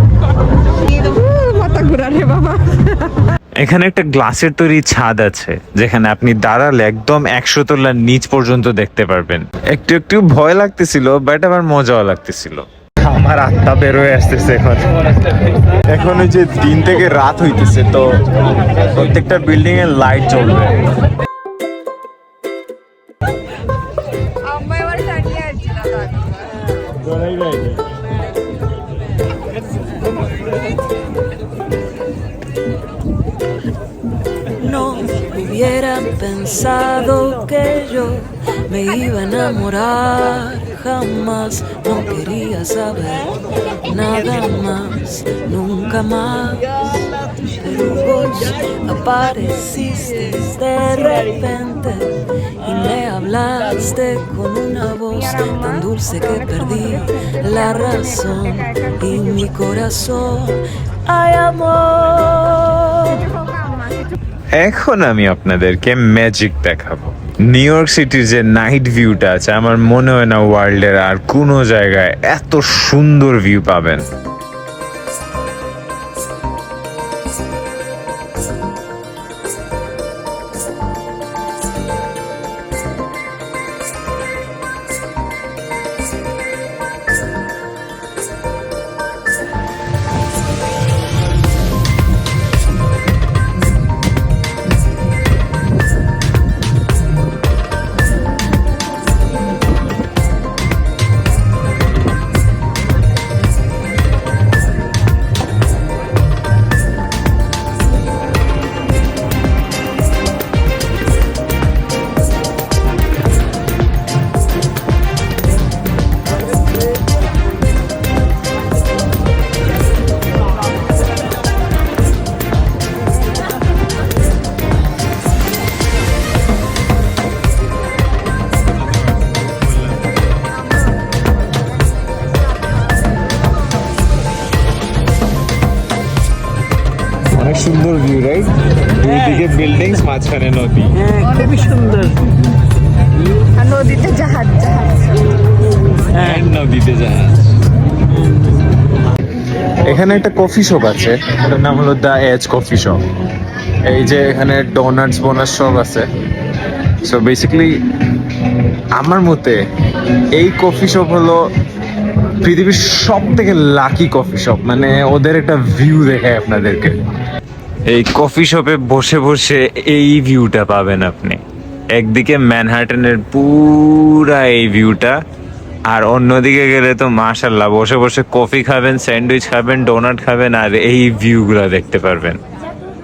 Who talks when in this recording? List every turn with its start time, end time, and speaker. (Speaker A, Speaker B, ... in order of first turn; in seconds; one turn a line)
Speaker A: 0.8-3.2
Speaker B: 3.6-20.9
Speaker A: 24.4-26.3
Speaker C: 34.5-63.4
Speaker A: 63.3-64.1
Speaker B: 64.5-74.0
Speaker B: 137.3-141.1
Speaker A: 143.5-145.1
Speaker B: 146.1-147.5
Speaker B: 149.8-153.0
Speaker B: 153.6-156.1
Speaker B: 156.9-157.8
Speaker B: 158.9-159.6
Speaker B: 160.3-161.4
Speaker B: 162.0-166.9
Speaker B: 167.9-171.4
Speaker B: 171.9-175.2
Speaker B: 175.8-182.4